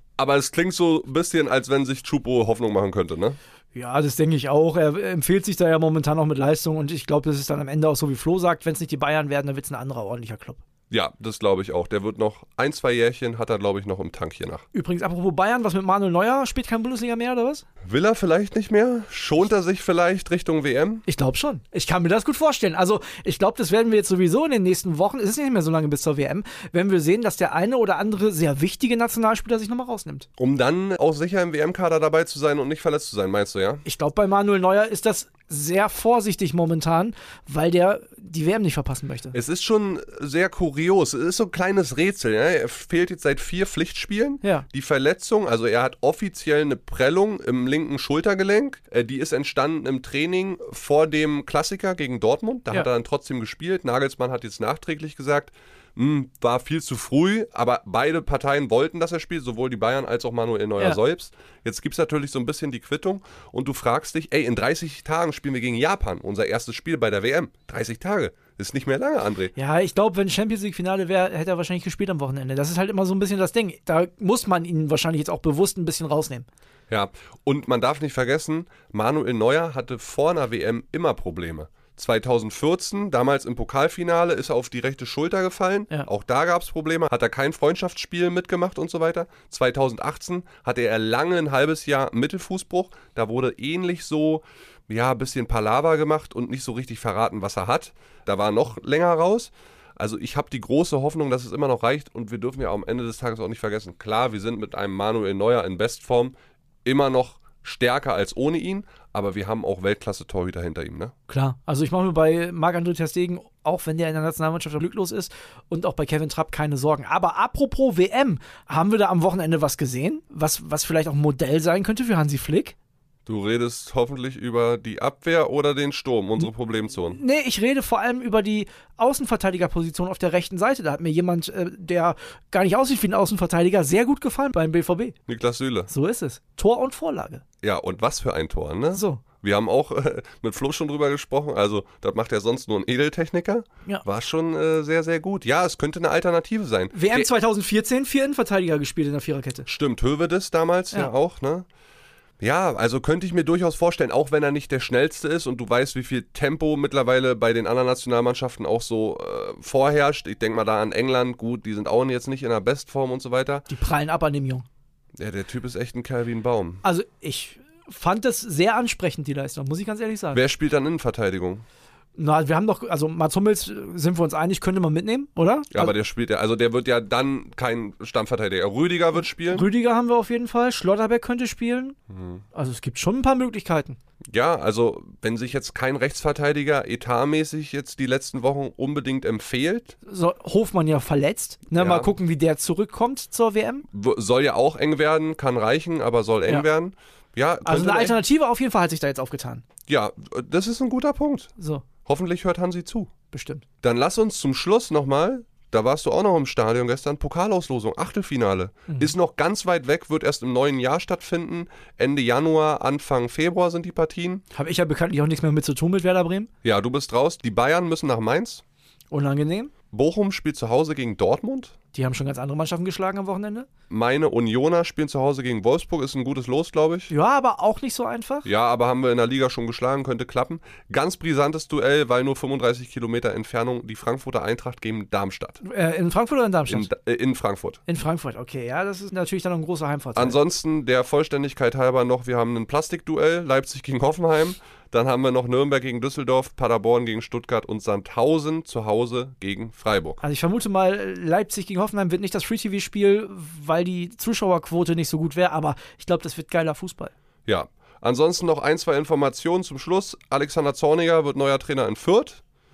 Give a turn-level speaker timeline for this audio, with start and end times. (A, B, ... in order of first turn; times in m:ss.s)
0:00.2-0:03.4 A
0:03.7-0:10.6 B
0:10.9-0:14.6 A
0:14.7-0:17.6 B
0:17.8-0:21.0 A
0:21.1-0:30.3 B
0:30.4-0:33.8 A
0:33.8-0:39.3 B
0:39.3-1:09.5 A
1:09.6-1:16.5 B
1:16.9-1:46.3 A
1:46.8-1:51.1 A
1:51.3-2:02.8 B
2:03.2-2:07.2 A
2:07.1-2:15.1 B
2:15.3-2:15.9 A
2:15.9-2:17.4 B
2:17.6-2:27.3 A
2:18.9-2:19.2 B
2:26.9-2:29.6 B
2:29.6-2:31.6 A
2:32.4-2:43.6 A
2:43.7-2:44.6 B
2:45.2-2:46.8 A
2:46.8-2:50.4 B
2:50.3-2:51.6 A
2:52.2-2:55.9 B
2:55.7-2:59.6 A
2:59.5-3:01.9 B
3:02.1-3:02.4 A
3:02.5-3:04.0 B
3:04.3-3:10.0 A
3:10.0-3:13.8 B
3:11.8-3:12.1 A
3:13.9-3:18.2 A
3:17.6-3:19.6 B
3:19.9-3:21.5 A
3:21.6-3:21.8 B
3:22.0-3:23.1 A
3:23.3-3:23.6 B
3:23.8-3:34.4 A
3:34.5-3:36.5 B
3:36.6-3:38.6 A
3:39.1-3:39.7 B
3:39.9-3:41.8 A
3:41.9-3:43.7 B
3:43.9-3:47.1 A
3:47.1-3:48.4 B
3:48.4-3:55.6 A
3:55.6-3:56.9 B
3:56.7-3:57.8 A
3:57.9-4:00.4 B
4:00.2-4:10.2 A
4:10.2-4:17.1 B
4:17.5-4:22.4 A